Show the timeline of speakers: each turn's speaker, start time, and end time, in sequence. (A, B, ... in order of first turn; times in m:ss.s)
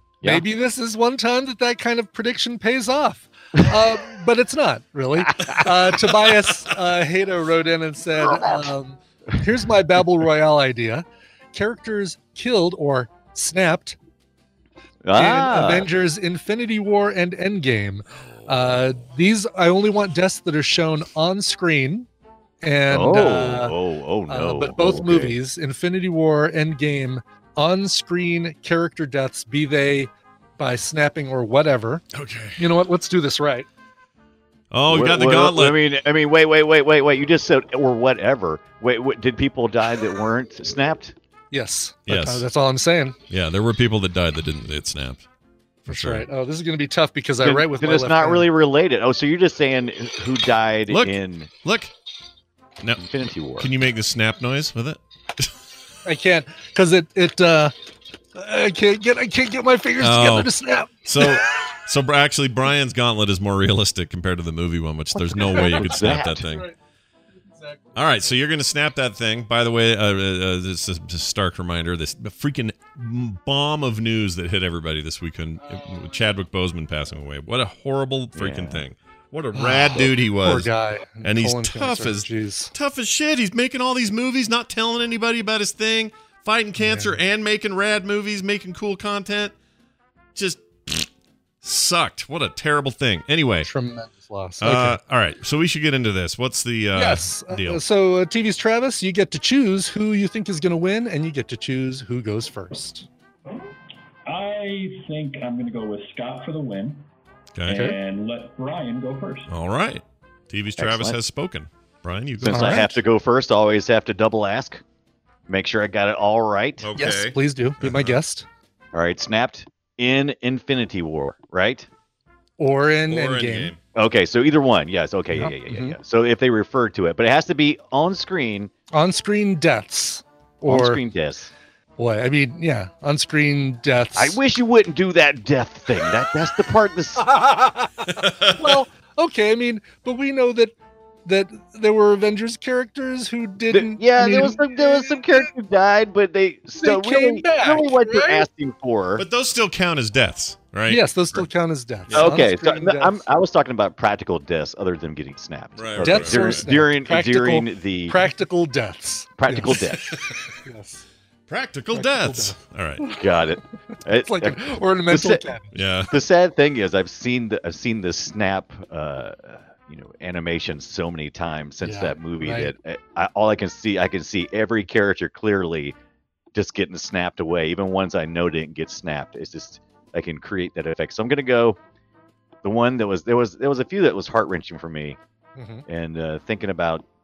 0:00.2-0:14.0 A
0:05.3-0:05.6 B
0:05.4-0:06.7 C
0:08.2-0:08.7 B
0:15.0-0:15.9 B
0:15.1-0:22.1 A
0:18.1-0:18.8 C
0:22.6-0:23.7 A
0:22.9-0:25.4 B
0:24.3-0:32.0 A
0:32.1-0:32.7 C
0:32.6-0:33.7 A
0:34.7-0:35.8 C
0:34.9-0:41.1 B
0:41.5-0:43.2 A
0:42.0-0:42.4 C
0:43.3-0:45.2 C
0:45.8-0:48.5 A
0:45.9-0:46.2 C
0:47.4-0:51.5 B
0:50.9-0:51.9 C
0:53.0-0:53.7 B
0:53.6-0:55.5 C
0:56.0-0:57.7 A
0:58.3-1:01.6 A
1:00.0-1:00.5 C
1:01.0-1:06.7 C
1:05.4-1:06.7 A
1:05.4-1:06.5 B
1:07.5-1:07.8 A
1:07.9-1:29.5 C
1:15.7-1:16.1 A
1:18.3-1:18.8 B
1:19.5-1:22.7 A
1:26.8-1:27.1 A
1:30.3-1:31.1 C
1:31.6-1:33.7 C
1:33.6-1:35.0 A
1:34.6-1:37.8 C
1:36.9-1:43.1 A
1:44.3-1:47.1 D
1:47.6-1:47.9 C
1:47.7-1:49.5 D
1:47.7-1:48.0 A
1:49.5-1:52.9 C
1:50.8-1:51.2 B
1:52.4-1:54.8 B
1:52.4-1:53.0 A
1:55.5-1:56.9 B
1:56.8-1:58.2 C
1:57.0-1:58.4 A
1:58.9-2:01.9 B
2:02.6-2:03.7 A
2:03.1-2:03.8 C
2:03.9-2:08.7 B
2:05.3-2:06.0 A
2:08.9-2:11.0 A
2:10.7-2:11.5 B
2:12.0-2:14.4 A
2:14.2-2:17.4 B
2:17.2-2:17.9 A
2:18.1-2:18.6 C
2:18.5-2:25.5 A
2:23.7-2:29.2 B
2:26.8-2:28.5 A
2:29.2-2:31.5 C
2:30.9-2:33.2 A
2:32.1-2:32.3 C
2:32.1-2:38.2 B
2:35.7-2:36.7 C
2:36.0-2:39.9 A
2:39.4-2:40.2 B
2:40.5-2:41.0 A
2:41.5-2:43.0 C
2:41.9-2:43.3 A
2:43.2-2:45.4 B
2:44.2-2:45.7 A
2:45.7-2:46.1 C
2:46.1-2:55.9 B
2:51.8-2:52.7 A
2:56.5-3:01.8 B
3:02.6-3:05.2 B
3:05.6-3:05.8 A
3:05.9-3:07.0 B